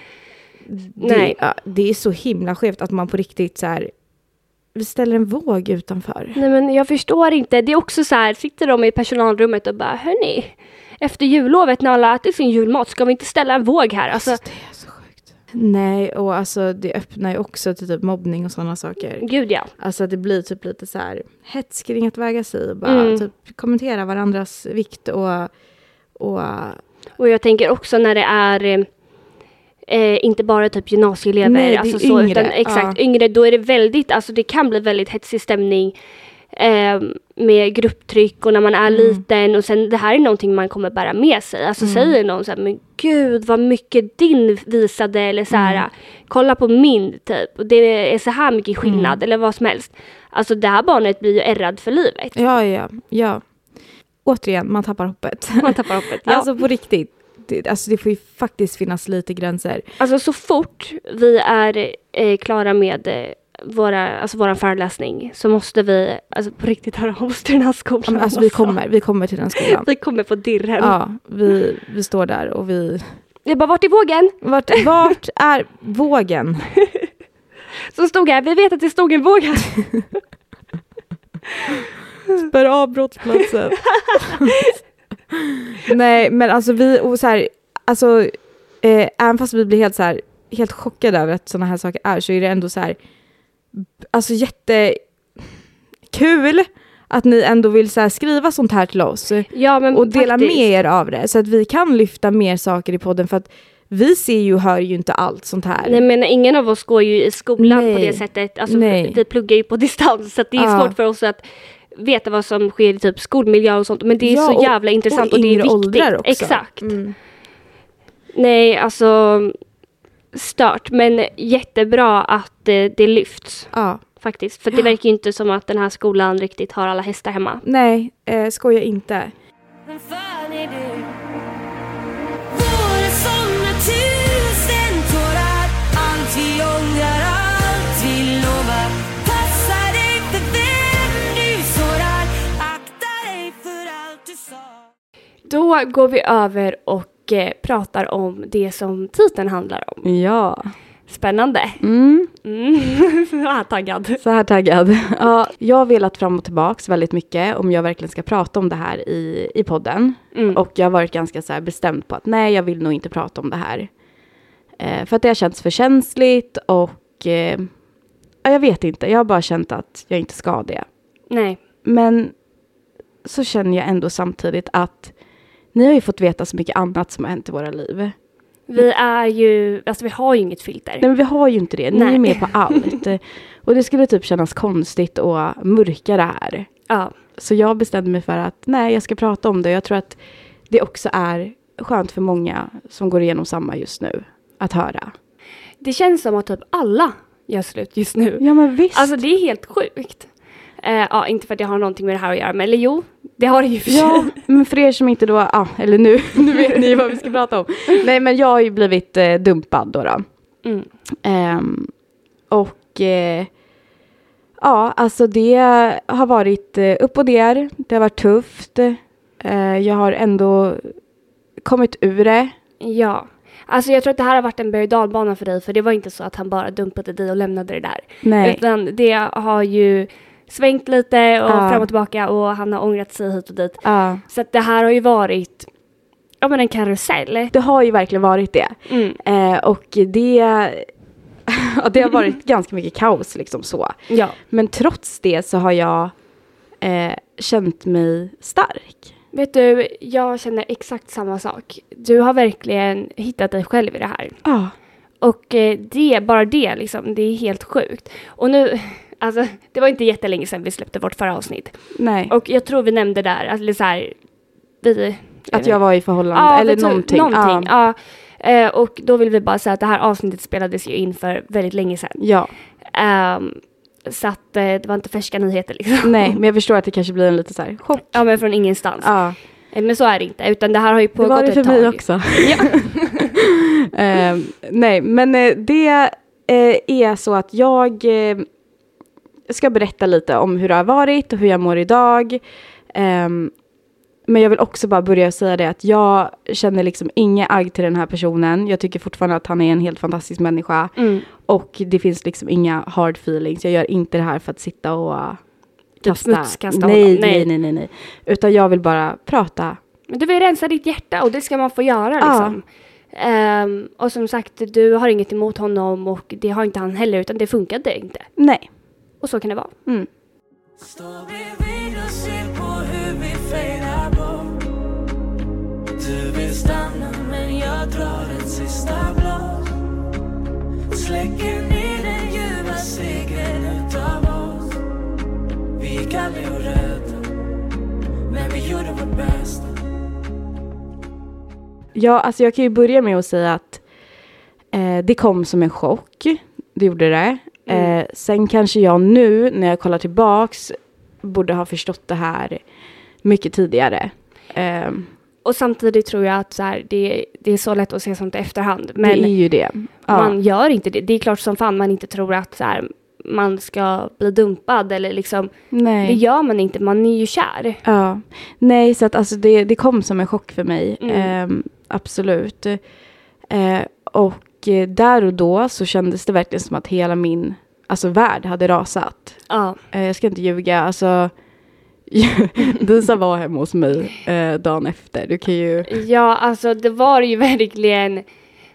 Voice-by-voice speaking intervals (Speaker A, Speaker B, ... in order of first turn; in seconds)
Speaker A: 0.7-3.9, 4.8-6.4, 14.2-19.3, 19.8-25.5, 26.2-26.8, 31.4-33.0, 38.9-39.2, 41.8-42.1, 45.5-45.9, 48.8-49.2, 52.4-53.4, 54.2-59.9, 68.1-69.9, 70.8-73.0, 74.4-76.7, 82.3-84.6, 85.3-93.0, 93.7-95.0, 96.1-106.0, 107.6-109.2, 110.6-110.9, 114.2-117.2, 123.7-124.0, 127.6-129.3, 150.0-150.7, 151.8-152.3, 154.2-163.9, 164.8-167.7, 168.4-170.9, 171.8-172.3, 173.2-175.1, 175.7-178.1, 181.0-186.7, 187.4-190.2, 190.7-195.1, 198.4-199.2, 203.9-210.2, 211.2-211.9, 212.5-213.5, 214.6-220.9, 221.6-222.5, 228.2-228.6, 231.5-231.9, 233.8-234.2, 237.5-240.9, 241.5-246.1, 246.8-249.1, 254.4-254.7, 262.0-262.3, 265.5-267.7, 272.2-272.5, 276.0-278.2, 279.0-279.4, 281.2-288.5, 289.5-293.5, 294.3-305.4, 306.0-309.8, 312.2-312.6, 318.4-318.7, 341.9-343.8, 344.7-352.6, 353.2-355.1, 359.0-360.4, 365.7-366.2, 367.8-372.8, 373.5-379.4, 379.9-381.3, 382.1-385.9
Speaker B: 1.0-1.4, 6.3-14.4, 19.2-19.7, 22.8-23.3, 27.2-28.9, 29.9-35.9, 36.5-52.4, 55.6-56.5, 60.0-68.8, 69.6-71.0, 73.5-75.1, 77.9-80.0, 83.9-84.8, 99.5-100.7, 105.8-117.0, 118.3-119.6, 120.3-127.6, 145.5-150.1, 151.1-151.8, 152.4-154.2, 160.3-160.6, 171.3-171.6, 178.7-181.1, 181.9-182.9, 195.8-204.4, 210.6-210.9, 222.8-235.7, 236.4-237.5, 238.9-239.2, 244.1-244.4, 249.3-254.4, 255.2-261.7, 262.3-264.2, 264.8-265.8, 266.3-272.2, 272.9-276.4, 278.1-279.1, 279.7-283.3, 301.0-301.3, 306.0-307.5, 310.1-318.3, 319.2-319.7, 347.7-347.9, 355.4-359.3, 360.1-367.8, 371.0-371.3, 379.5-379.8, 385.9-388.2
Speaker C: 129.9-131.2, 132.5-144.9
Speaker D: 320.8-324.6, 326.0-329.8, 330.9-334.8, 335.8-337.3, 338.3-339.8